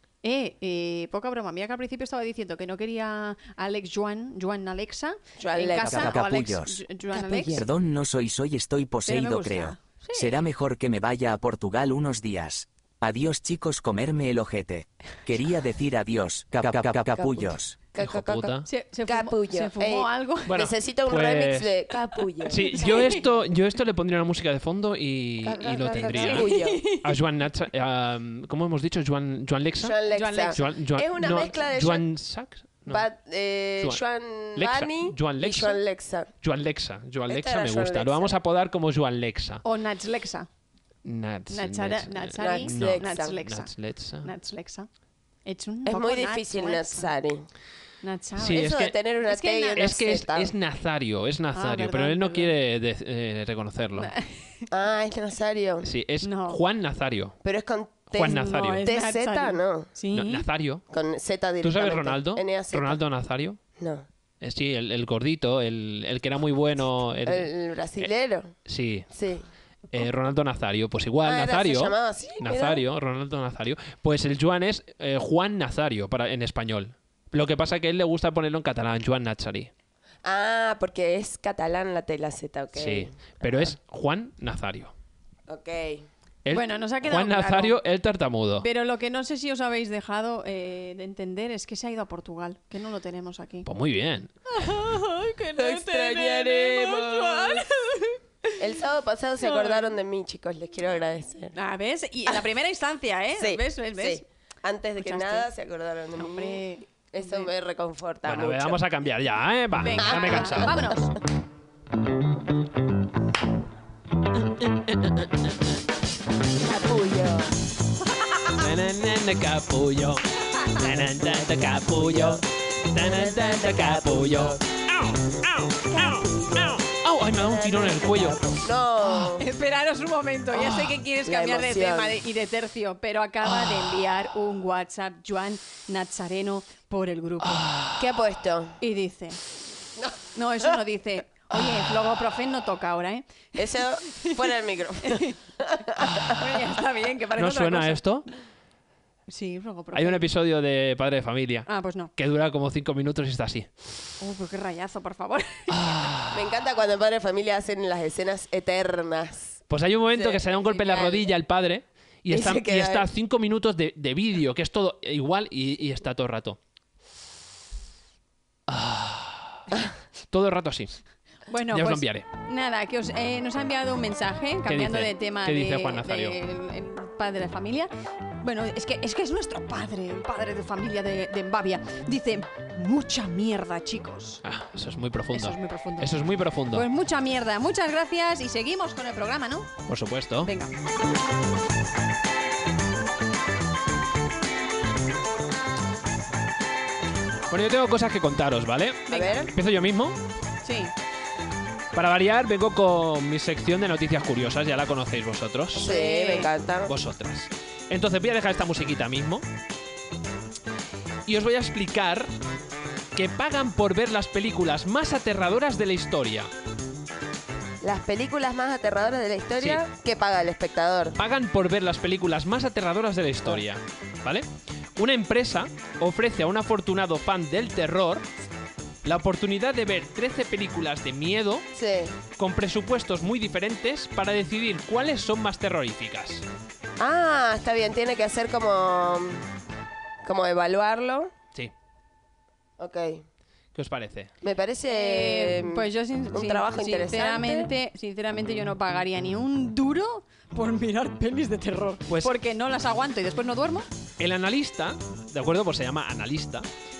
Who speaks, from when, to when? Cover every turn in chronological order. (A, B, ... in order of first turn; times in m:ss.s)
0:00.2-0:07.7 A
0:05.4-0:06.2 B
0:05.9-0:06.8 C
0:07.1-0:07.7 B
0:07.5-0:17.8 C
0:09.1-0:10.3 A
0:17.2-0:23.2 B
0:18.0-0:18.7 D
0:18.7-0:20.6 A
0:20.5-0:21.8 D
0:22.4-0:30.0 D
0:22.5-0:23.2 A
0:25.4-0:26.8 B
0:26.0-0:27.2 A
0:29.8-0:32.0 B
0:30.1-0:30.6 A
0:30.5-0:33.1 D
0:32.9-0:36.3 B
0:34.6-0:35.8 D
0:36.4-0:39.6 D
0:37.3-0:38.4 B
0:39.6-0:40.5 A
0:41.0-0:44.3 D
0:41.5-0:44.9 A
0:42.4-0:43.4 B
0:45.4-0:47.1 A
0:45.9-0:47.5 B
0:48.0-0:48.7 A
0:48.4-0:49.0 D
0:48.5-0:50.5 B
0:49.2-0:49.9 A
0:49.8-0:54.1 D
0:51.5-0:52.5 A
0:54.0-0:54.7 A
0:54.7-0:55.9 B
0:55.8-0:57.4 D
0:56.2-0:56.6 A
0:57.4-0:59.9 B
0:58.1-0:58.9 D
0:58.2-1:00.5 A
1:00.1-1:00.8 D
1:00.9-1:03.0 B
1:01.6-1:03.6 D
1:03.8-1:04.1 B
1:04.4-1:08.1 D
1:07.2-1:08.5 B
1:08.7-1:09.1 D
1:09.1-1:09.5 B
1:09.9-1:19.7 D
1:11.2-1:12.8 B
1:20.2-1:23.7 B
1:22.8-1:24.9 D
1:25.5-1:26.1 B
1:26.4-1:28.7 D
1:26.5-1:27.8 A
1:28.6-1:33.7 A
1:33.6-1:34.3 D
1:34.5-1:38.6 A
1:35.6-1:37.6 B
1:38.6-1:41.5 B
1:39.4-1:40.0 A
1:41.6-1:44.2 A
1:43.4-1:48.8 B
1:45.0-1:45.5 A
1:46.2-1:47.5 A
1:48.3-1:50.8 D
1:49.8-1:51.1 A
1:50.0-1:50.9 B
1:56.6-1:57.5 B
1:58.5-2:08.6 D
2:01.9-2:02.4 B
2:03.0-2:04.6 B
2:05.9-2:06.8 B
2:07.4-2:09.5 B
2:09.1-2:17.8 A
2:11.2-2:12.2 B
2:17.4-2:18.0 D
2:18.0-2:18.8 B
2:18.8-2:19.4 A
2:20.4-2:23.4 A
2:23.6-2:26.3 B
2:25.0-2:25.4 A
2:26.2-2:28.0 A
2:27.4-2:28.3 D
2:29.3-2:30.3 A
2:29.9-2:33.7 D
2:31.7-2:32.1 A
2:34.2-2:36.0 A
2:35.7-2:36.4 D
2:36.3-2:39.6 B
2:39.7-2:46.6 D
2:40.1-2:41.3 B
2:42.3-2:43.1 B
2:48.7-2:49.8 D
2:50.3-2:50.9 D
2:51.5-2:57.9 A
2:51.7-2:52.3 D
2:54.7-2:56.4 D
2:58.4-3:04.4 A
3:04.4-3:06.9 D
3:05.3-3:06.1 A
3:06.7-3:09.7 A
3:09.9-3:10.5 D
3:10.4-3:10.7 A
3:17.5-3:20.2 D
3:19.1-3:19.4 A
3:19.1-3:19.5 B
3:20.6-3:20.9 A
3:21.9-3:25.9 D
3:25.8-3:26.9 B
3:25.8-3:26.5 A
3:26.9-3:29.4 D
3:31.3-3:32.3 D
3:33.2-3:36.5 D
3:37.8-3:41.2 B
3:41.2-3:48.2 D
3:49.0-3:51.7 D
3:51.8-3:52.2 B
3:52.4-3:56.4 D
3:57.0-3:59.5 B
4:00.2-4:01.3 B
4:02.8-4:03.2 B
4:03.8-4:04.3 D
4:04.4-4:07.7 B
4:04.9-4:13.9 A
4:12.1-4:12.4 D
4:14.2-4:16.7 D